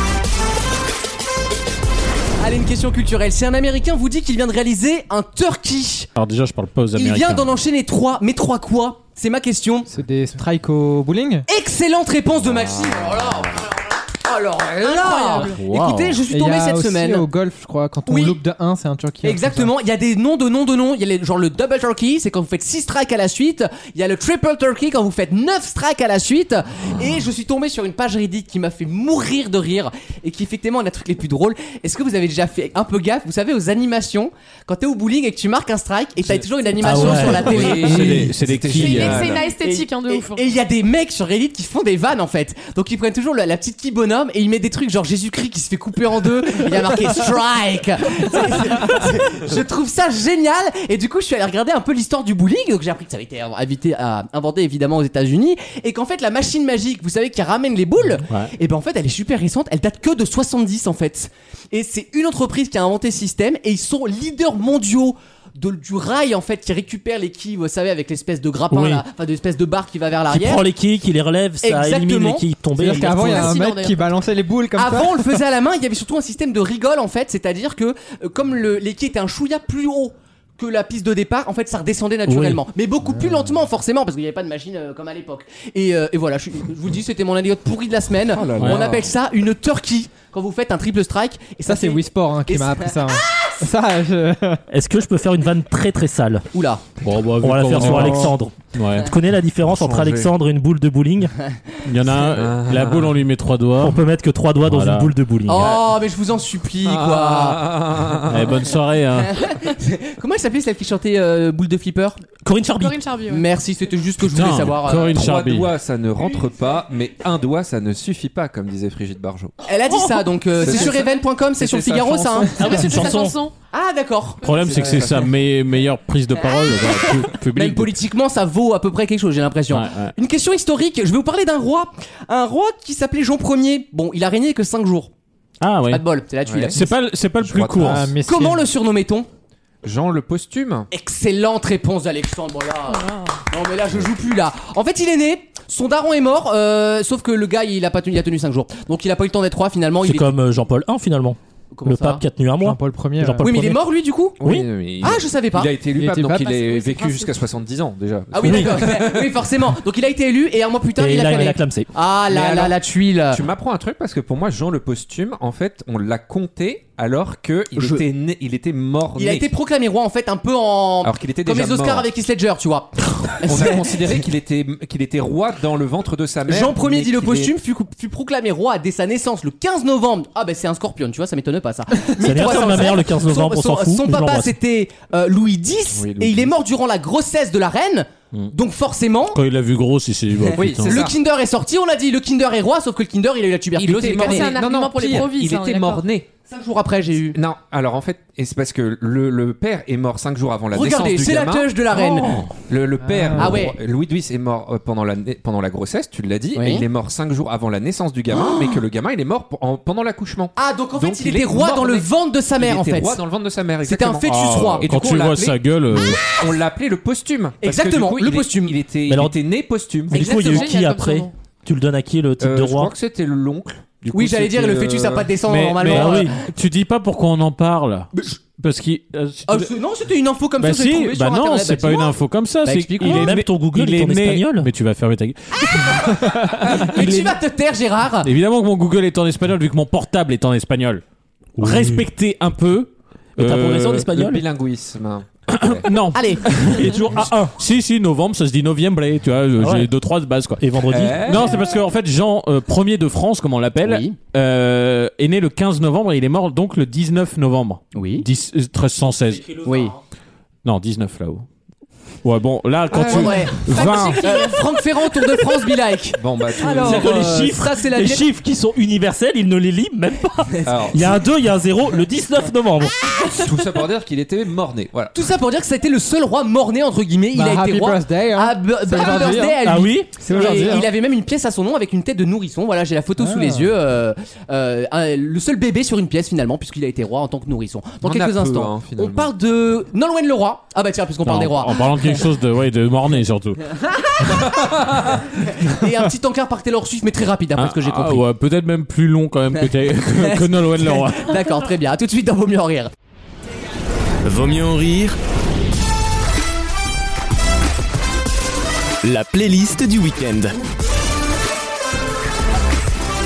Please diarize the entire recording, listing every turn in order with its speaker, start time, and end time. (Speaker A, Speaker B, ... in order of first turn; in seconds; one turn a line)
Speaker A: 2.4-6.1
Speaker B: 6.2-7.6
Speaker A: 6.9-9.9
Speaker C: 9.9-11.4
Speaker A: 11.5-17.3
Speaker D: 12.4-13.6
Speaker E: 14.8-15.6
Speaker B: 15.4-16.2
Speaker C: 16.3-19.7
Speaker A: 18.1-18.4
Speaker A: 19.2-38.3
Speaker F: 36.8-37.9
Speaker B: 36.9-39.3
Speaker D: 37.0-39.4
Speaker E: 38.7-40.5
Speaker A: 39.1-70.7
Speaker F: 68.7-69.0
Speaker F: 70.3-73.5
Speaker A: 71.6-72.5
Speaker C: 72.8-75.4
Speaker E: 73.0-74.1
Speaker A: 74.8-93.2
Speaker F: 82.3-82.6
Speaker D: 88.3-89.1
Speaker B: 88.6-88.9
Speaker C: 91.6-94.6
Speaker F: 94.7-96.5
Speaker A: 96.5-96.9
Speaker B: 97.0-99.1
Speaker F: 97.4-101.3
Speaker C: 97.8-98.3
Speaker D: 99.7-100.3
Speaker B: 101.8-104.0
Speaker D: 102.2-103.2
Speaker F: 103.8-105.7
Speaker B: 104.6-105.7
Speaker A: 105.5-107.7
Speaker D: 106.8-108.7
Speaker B: 108.3-109.3
Speaker A: 109.2-112.2
Speaker F: 112.4-113.0
Speaker E: 112.7-113.5
Speaker A: 113.3-115.2
Speaker B: 114.3-115.7
Speaker D: 114.9-119.6
Speaker A: 119.6-122.7
Speaker D: 120.6-122.4
Speaker E: 120.6-121.2
Speaker E: 122.4-123.5
Speaker F: 122.5-123.4
Speaker A: 123.7-124.5
Speaker B: 124.4-127.9
Speaker E: 124.5-124.7
Speaker D: 124.6-125.3
Speaker A: 126.4-135.1
Speaker B: 129.7-130.1
Speaker B: 135.6-136.1
Speaker A: 135.9-136.9
Speaker D: 136.4-138.1
Speaker B: 136.7-138.1
Speaker C: 137.8-138.6
Speaker A: 138.2-139.3
Speaker D: 139.8-140.9
Speaker A: 140.9-150.3
Speaker F: 150.0-153.8
Speaker A: 151.7-152.2
Speaker C: 152.6-153.6
Speaker A: 153.4-154.4
Speaker F: 154.4-154.7
Speaker D: 154.4-159.4
Speaker A: 155.0-155.8
Speaker C: 155.9-156.5
Speaker E: 156.2-157.5
Speaker A: 158.3-163.4
Speaker F: 158.4-158.7
Speaker F: 161.0-161.9
Speaker D: 162.3-169.5
Speaker A: 167.8-168.0
Speaker A: 169.2-174.2
Speaker D: 171.0-172.1
Speaker D: 173.4-177.6
Speaker A: 176.5-189.4
Speaker F: 182.2-184.5
Speaker D: 185.9-186.6
Speaker B: 189.3-191.1
Speaker A: 190.5-194.7
Speaker D: 190.5-191.1
Speaker D: 193.8-196.3
Speaker E: 194.1-196.1
Speaker A: 196.5-197.4
Speaker D: 197.3-201.9
Speaker A: 200.7-202.4
Speaker D: 202.5-215.5
Speaker C: 203.0-203.5
Speaker A: 203.4-203.8
Speaker A: 206.6-206.8
Speaker A: 208.3-208.8
Speaker A: 210.6-213.2
Speaker A: 213.8-215.5
Speaker B: 214.8-216.2
Speaker D: 216.2-220.2
Speaker A: 217.6-218.8
Speaker F: 219.1-219.4
Speaker F: 220.1-222.9
Speaker E: 220.1-221.3
Speaker A: 220.3-220.7
Speaker D: 222.4-225.4
Speaker A: 224.1-226.4
Speaker B: 225.5-229.7
Speaker F: 225.9-226.3
Speaker A: 229.5-233.3
Speaker B: 230.6-237.3
Speaker F: 233.1-234.7
Speaker A: 235.7-236.1
Speaker A: 236.7-238.3
Speaker B: 238.2-241.0
Speaker F: 241.6-242.1
Speaker B: 241.6-244.1
Speaker F: 243.4-244.4
Speaker D: 244.0-245.9
Speaker B: 245.5-250.6
Speaker A: 246.1-246.5
Speaker F: 247.1-247.5
Speaker F: 249.6-249.9
Speaker F: 250.6-251.3
Speaker D: 250.9-251.7
Speaker B: 251.1-259.6
Speaker A: 253.8-254.2
Speaker A: 257.9-258.3
Speaker A: 259.6-259.9
Speaker B: 260.6-261.4
Speaker B: 262.2-264.4
Speaker A: 262.9-268.3
Speaker E: 263.1-264.7
Speaker D: 266.2-267.4
Speaker F: 266.7-273.1
Speaker D: 270.6-271.2
Speaker D: 273.3-275.1
Speaker A: 275.1-292.1
Speaker C: 277.3-280.9
Speaker F: 279.6-280.9
Speaker C: 283.2-283.7
Speaker D: 288.0-289.3
Speaker B: 291.2-293.6
Speaker A: 294.0-294.6
Speaker A: 295.4-298.2
Speaker B: 297.6-301.4
Speaker A: 300.0-302.9
Speaker G: 304.2-305.2
Speaker G: 309.0-310.6